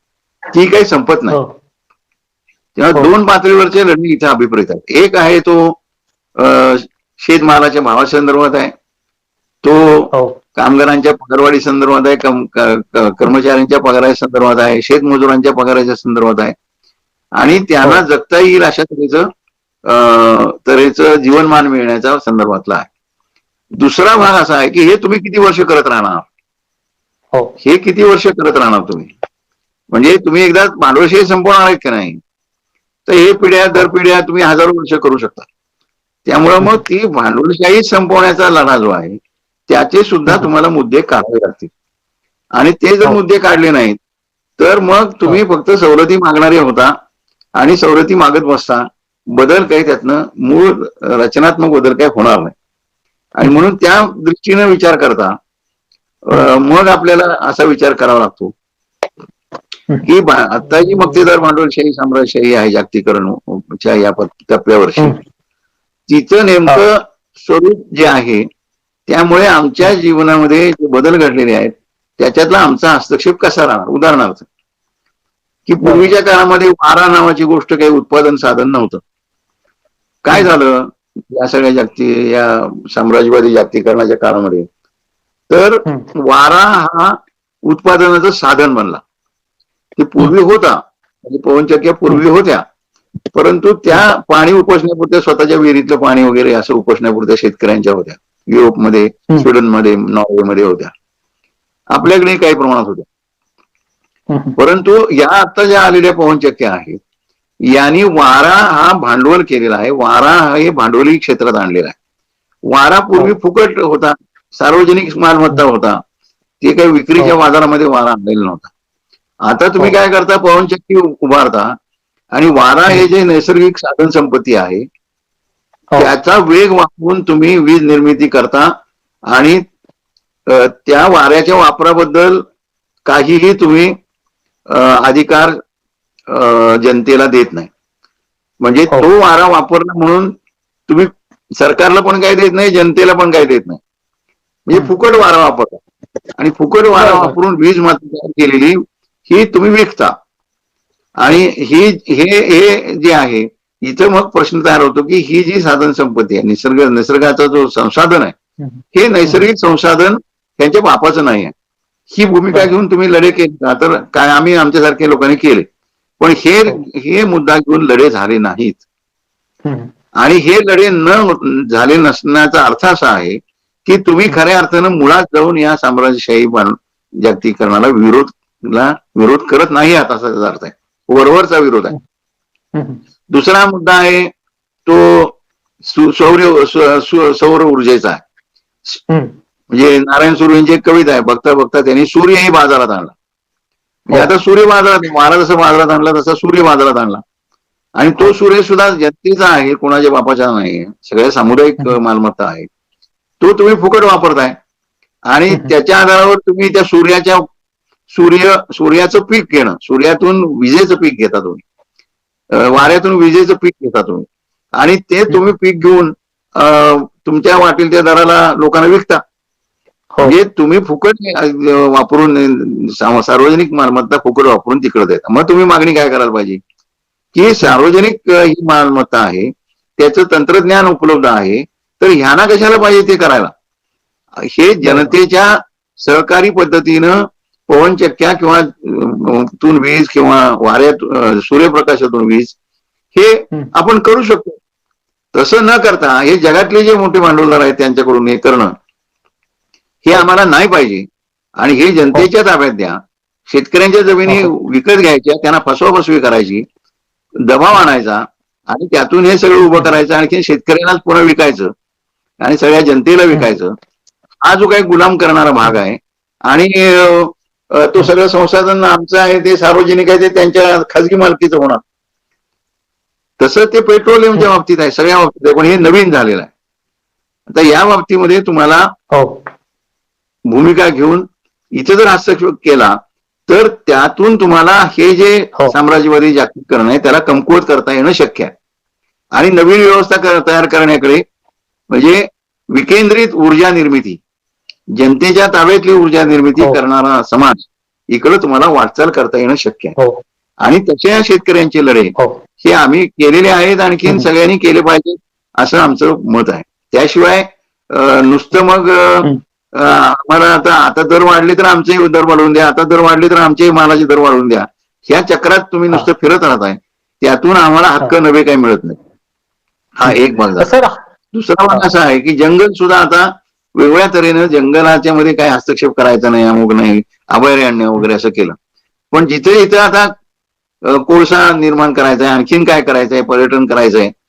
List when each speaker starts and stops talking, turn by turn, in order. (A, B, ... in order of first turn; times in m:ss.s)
0:00.5-0:01.4 A
0:02.8-0:05.8 A
0:06.4-0:08.7 A
0:09.6-0:16.5 A
0:10.1-0:10.4 B
0:17.4-0:19.3 A
0:19.8-0:22.9 A
0:23.8-0:26.3 A
0:27.6-0:29.1 A
0:29.9-0:32.2 A
0:33.0-0:35.5 A
0:36.2-0:41.7 A
0:42.6-0:44.0 A
0:44.6-0:46.9 A
0:47.6-0:52.5 A
0:53.4-0:55.3 A
0:56.2-0:58.5 A
1:00.0-1:05.2 A
1:06.1-1:08.4 A
1:09.1-1:14.5 A
1:15.7-1:19.0 A
1:15.8-1:16.1 B
1:20.2-1:24.7 A
1:25.5-1:29.0 A
1:30.0-1:32.6 A
1:33.3-1:40.9 A
1:41.9-1:43.1 A
1:44.3-1:44.6 B
1:44.6-1:47.0 A
1:47.6-1:52.0 A
1:52.7-1:56.0 A
1:56.6-1:58.7 A
1:59.4-2:01.7 A
2:02.3-2:04.8 A
2:06.0-2:08.7 A
2:09.3-2:09.6 A
2:10.5-2:12.4 A
2:13.1-2:13.9 A
2:14.7-2:15.6 A
2:16.3-2:17.7 A
2:18.6-2:20.3 A
2:20.9-2:23.8 A
2:24.7-2:25.8 A
2:26.4-2:30.1 A
2:27.0-2:27.4 B
2:31.2-2:38.4 A
2:38.6-2:39.4 B
2:38.9-2:41.5 A
2:42.1-2:45.7 A
2:46.2-2:48.8 A
2:49.6-2:49.9 B
2:50.2-3:01.9 A
3:02.7-3:03.0 B
3:03.3-3:04.3 A
3:04.8-3:08.2 A
3:09.1-3:09.3 B
3:09.7-3:13.1 A
3:14.1-3:17.2 A
3:18.0-3:22.7 A
3:23.4-3:24.6 A
3:25.3-3:27.4 A
3:28.1-3:31.6 A
3:32.5-3:39.2 A
3:40.2-3:46.6 A
3:47.3-3:53.5 A
3:54.4-4:02.6 A
3:54.8-3:55.1 B
4:03.1-4:04.6 A
4:05.3-4:08.7 A
4:10.0-4:11.0 A
4:11.6-4:16.6 A
4:14.2-4:14.5 B
4:17.4-4:21.7 A
4:22.4-4:23.7 A
4:24.4-4:31.8 A
4:33.4-4:36.5 A
4:37.5-4:38.9 A
4:39.1-4:39.4 B
4:40.5-4:48.5 A
4:49.3-4:51.2 A
4:51.9-4:54.2 A
4:55.0-4:59.9 A
5:00.6-5:19.0 A
5:20.0-5:20.7 A
5:20.1-5:20.9 B
5:21.3-5:28.6 A
5:29.1-5:30.1 A
5:30.8-5:34.1 A